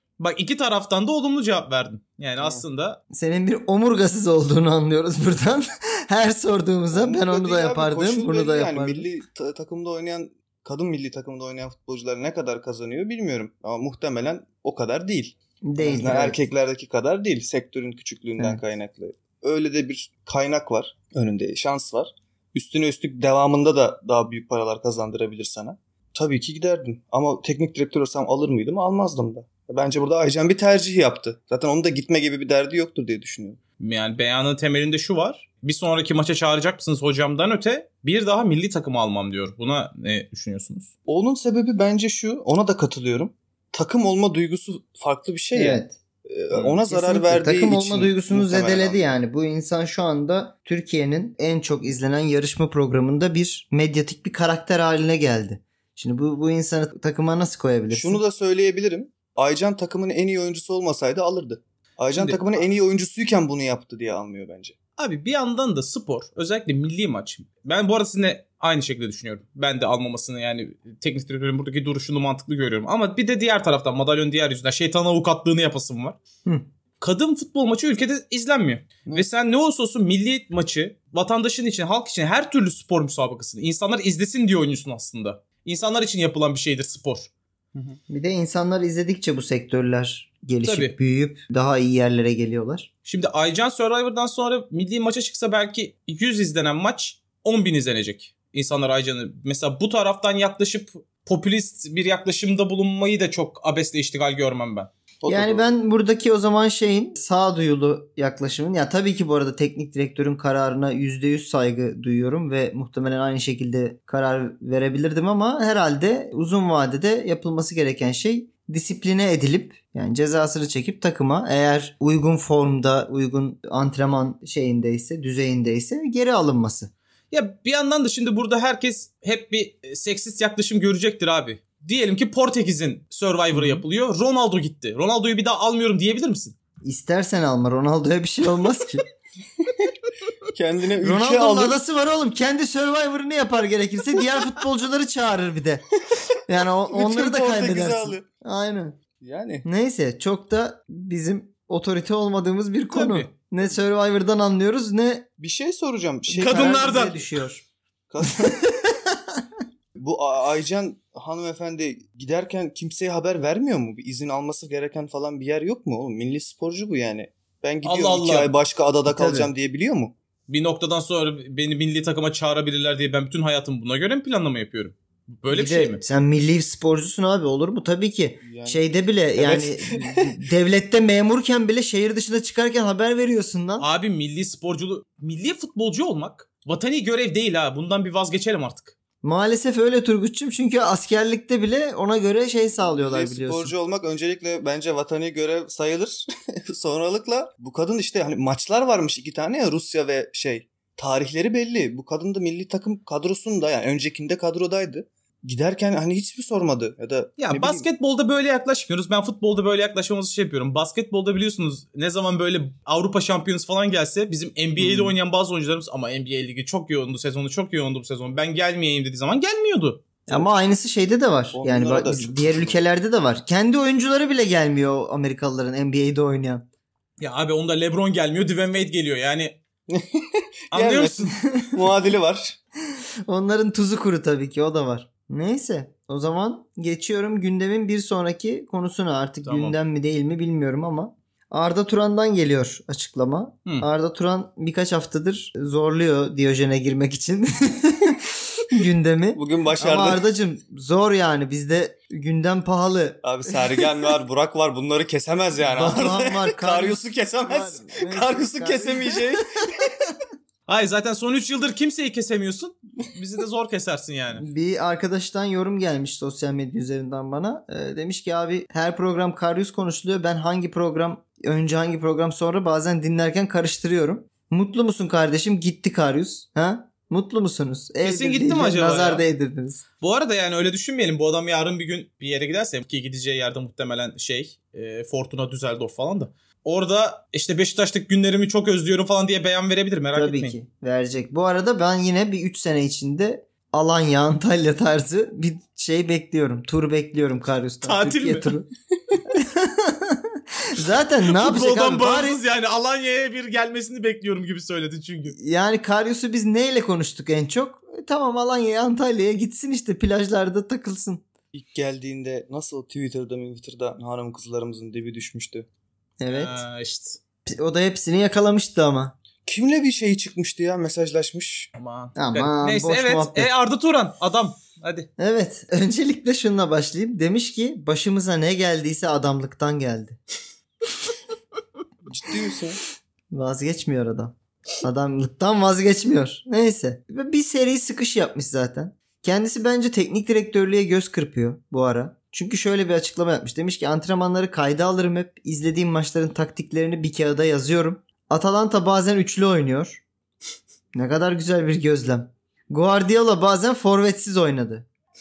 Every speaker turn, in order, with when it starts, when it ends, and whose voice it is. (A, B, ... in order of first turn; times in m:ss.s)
0:00.2-0:03.0 A
0:02.4-0:02.6 B
0:03.1-0:09.1 C
0:06.9-0:33.6 B
0:15.6-0:16.4 C
0:33.8-0:40.9 A
0:41.1-0:49.0 B
0:45.5-0:46.0 C
0:46.5-0:58.2 C
0:57.9-1:04.7 B
1:02.2-1:02.4 A
1:05.0-1:16.2 A
1:17.0-1:27.3 A
1:28.1-1:32.9 C
1:30.6-1:30.9 A
1:33.0-1:44.9 A
1:45.2-1:45.7 B
1:45.3-2:06.9 C
2:07.3-2:16.6 A
2:13.5-2:13.8 C
2:16.8-2:19.0 C
2:20.5-2:21.8 B
2:21.0-2:25.8 C
2:26.5-2:29.0 C
2:26.9-2:28.2 B
2:29.2-2:29.6 B
2:29.6-2:35.3 C
2:32.9-2:33.3 A
2:35.4-2:36.7 B
2:36.3-2:37.2 A
2:36.3-2:37.6 C
2:38.1-2:38.6 B
2:38.2-2:39.4 C
2:40.0-2:50.1 B
2:47.8-2:48.5 A
2:49.0-2:49.5 C
2:50.5-2:56.0 A
2:55.5-3:03.9 C
2:58.4-3:00.3 B
3:03.8-3:08.9 A
3:09.2-3:13.7 C
3:12.9-3:27.9 B
3:27.4-3:40.0 A
3:34.8-3:35.1 C
3:40.3-3:46.7 C
3:41.5-3:42.8 B
3:47.2-3:49.6 A
3:49.9-3:52.6 B
3:50.7-3:51.5 A
3:53.3-4:14.1 C
3:59.4-3:59.8 A
4:09.3-4:10.2 B
4:13.2-4:19.9 B
4:15.6-4:19.3 C
4:20.7-4:24.4 A
4:24.3-4:39.8 C
4:38.0-4:39.2 A
4:40.0-4:50.6 A
4:50.1-4:58.7 C
4:57.8-4:58.5 A
4:59.3-5:02.4 C
5:01.3-5:05.4 A
5:05.3-5:11.2 C
5:11.5-5:15.7 B
5:16.2-5:16.6 C
5:16.3-5:17.2 A
5:17.4-5:19.1 C
5:19.4-5:21.7 B
5:21.7-5:25.1 A
5:22.2-5:23.5 C
5:25.2-5:30.2 C
5:32.1-5:32.8 B
5:33.3-5:50.0 C
5:50.9-5:54.9 C